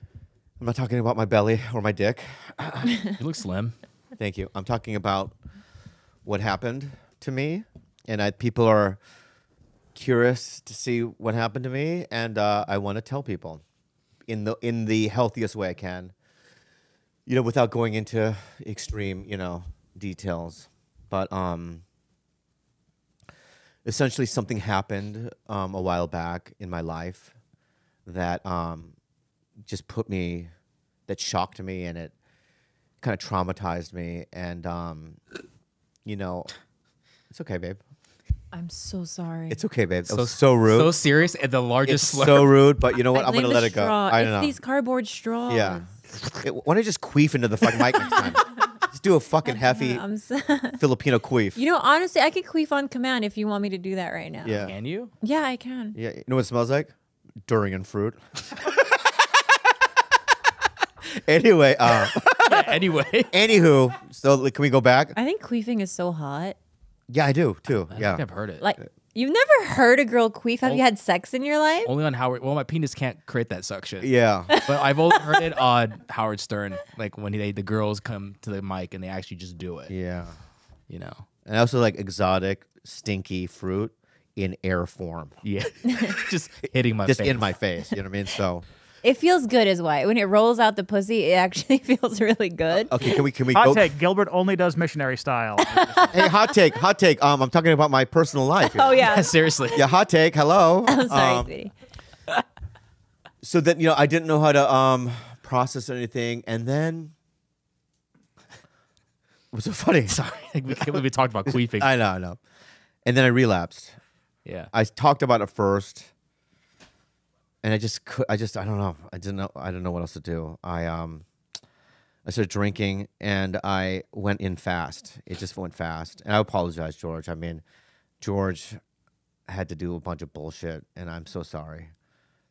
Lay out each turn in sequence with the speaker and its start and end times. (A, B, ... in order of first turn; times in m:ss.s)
0:00.6-0:03.1 A
0:03.2-0:03.8 B
0:04.2-0:05.3 A
0:06.2-0:09.0 A
0:09.9-0:13.6 A
0:14.3-0:16.1 A
0:17.2-0:21.8 A
0:23.8-0:27.3 A
0:28.0-0:29.0 A
0:29.6-0:30.5 A
0:31.1-0:32.1 A
0:33.0-0:35.2 A
0:36.0-0:36.5 A
0:37.3-0:37.8 A
0:38.5-0:39.6 C
0:39.5-0:40.9 A
0:40.1-0:42.6 B
0:41.8-0:44.6 A
0:43.1-0:46.0 C
0:45.5-0:45.8 A
0:46.4-0:50.0 A
0:49.4-0:50.8 C
0:50.8-0:51.6 A
0:51.6-0:54.7 C
0:54.4-0:54.7 A
0:54.6-0:55.1 B
0:55.2-0:56.0 C
0:55.9-0:56.9 A
0:57.4-0:58.7 A
1:01.0-1:02.8 A
1:02.4-1:03.3 B
1:03.3-1:05.1 A
1:05.1-1:06.6 C
1:07.1-1:08.2 A
1:07.9-1:08.6 B
1:08.6-1:11.9 C
1:11.8-1:19.9 B
1:14.0-1:14.6 A
1:14.5-1:15.4 C
1:19.9-1:20.4 A
1:20.9-1:21.2 B
1:21.4-1:25.3 A
1:25.4-1:27.5 B
1:27.0-1:28.6 A
1:29.0-1:33.2 C
1:32.9-1:33.9 A
1:33.5-1:36.0 D
1:35.7-1:36.2 C
1:36.1-1:39.0 A
1:38.6-1:39.8 C
1:39.0-1:39.8 B
1:39.7-1:41.5 A
1:40.8-1:41.7 C
1:43.4-1:47.1 A
1:49.5-1:50.2 A
1:50.1-1:51.9 B
1:51.4-1:52.4 A
1:53.0-1:54.0 A
1:54.4-1:54.7 B
1:54.7-1:56.1 A
1:57.6-2:01.2 A
2:02.2-2:07.6 A
2:08.2-2:08.8 A
2:09.5-2:11.9 A